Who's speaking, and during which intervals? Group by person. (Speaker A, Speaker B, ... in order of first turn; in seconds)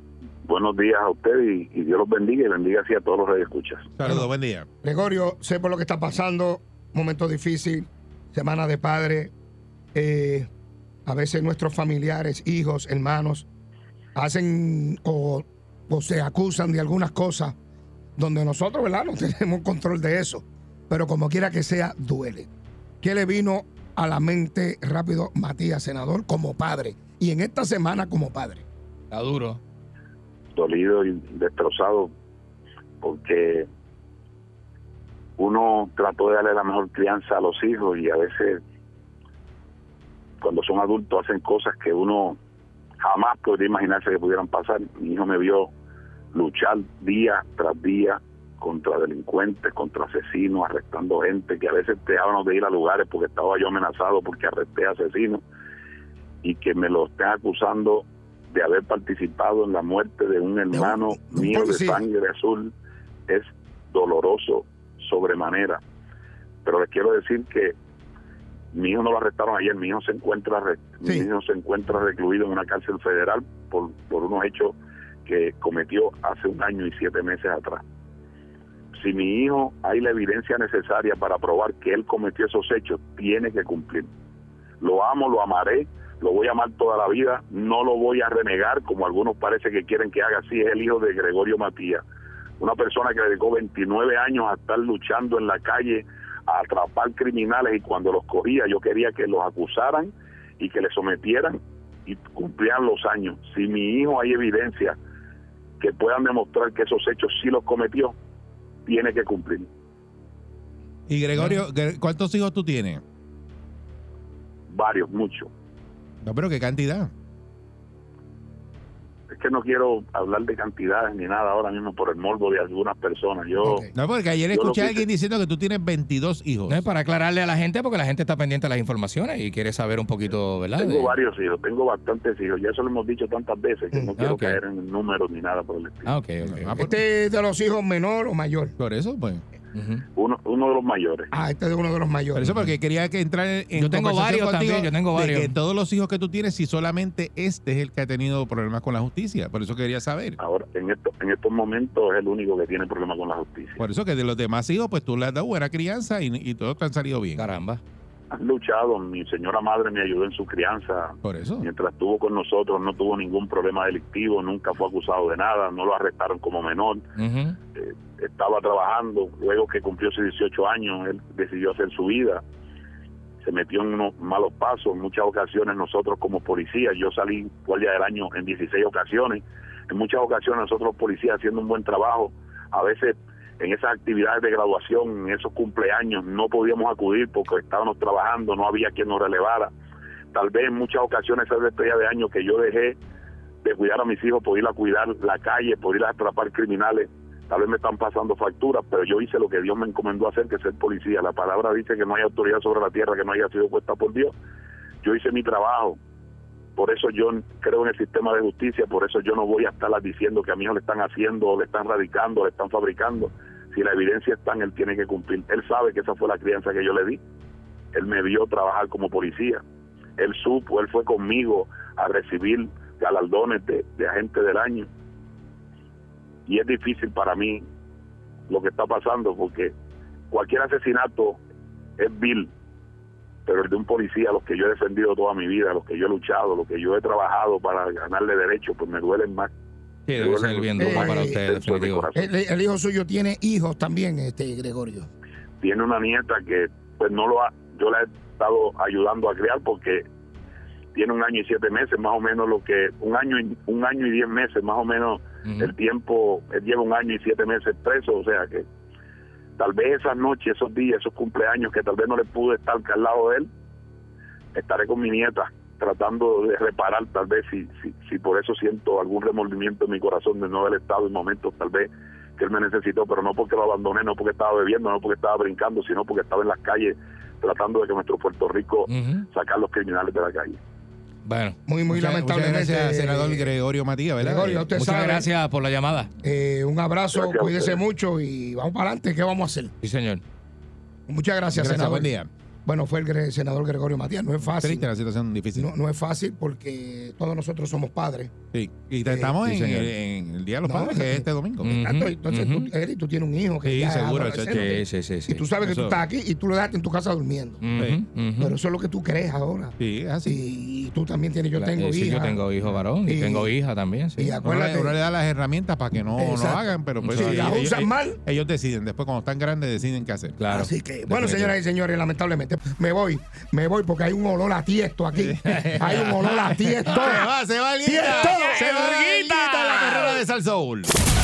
Speaker A: 0.5-3.9, 30.6-32.1, 33.0-33.7, 35.4-38.6, 40.4-42.4, 43.0-45.7, 46.3-55.4, 56.4-62.7, 63.3-65.8, 66.7-67.8, 68.7-77.8, 78.9-84.1, 84.8-92.0, 92.6-105.0, 105.8-108.2, 108.9-109.7, 114.7-115.5, 119.3-123.9, 124.5-125.1, 130.8-136.1, 140.2-141.3, 150.4-153.8, 158.3-167.0, 167.8-172.4, 173.4-189.7, 190.3-193.0, 193.6-204.3, 205.0-206.0, 206.8-217.2, 217.9-219.6, 220.2-224.9, 226.5-227.7, 228.5-229.7, 230.3-231.4, 232.0-232.5, 233.5-239.5, 240.1-242.3, 245.6-250.0, 250.9-258.6, 259.6-263.5, 264.5-280.6, 287.1-287.8
Speaker B: 4.0-4.7, 111.1-113.0, 116.2-117.1, 124.0-126.8, 136.4-136.9, 138.8-139.4, 142.4-150.4, 153.8-157.5, 161.2-161.7, 281.9-284.7, 291.5-292.3, 294.6-295.7, 298.5-301.8, 303.6-304.7, 305.6-306.0, 309.8-310.4, 314.4-320.4, 325.2-326.1, 326.8-330.9
Speaker C: 4.8-9.3, 9.9-10.5, 11.1-13.5, 14.2-17.6, 18.2-22.5, 23.0-28.6, 60.7-62.0, 123.6-123.9, 136.8-138.8, 141.3-142.5, 240.8-241.4, 242.2-245.1, 281.7-283.5, 284.2-285.3, 286.2-289.7, 291.1-294.9, 295.6-298.3, 299.1-299.4, 300.6-307.6, 308.4-312.4, 313.0-313.5, 314.2-315.0, 316.2-318.2, 320.5-327.3, 327.8-329.1
Speaker D: 29.1-29.6, 111.4-111.6, 126.7-131.1, 134.2-134.6, 136.1-136.8, 139.7-140.1, 142.4-142.8, 143.7-145.6, 157.4-157.8, 167.2-167.6, 240.1-242.1, 255.4-255.7, 278.9-279.3, 281.2-281.6, 284.7-286.1, 289.8-290.2, 299.4-299.9, 301.6-302.7, 304.5-305.4, 307.6-308.6, 311.5-314.4, 317.0-317.6, 320.4-321.6, 325.4-327.0, 328.2-328.7, 329.6-329.9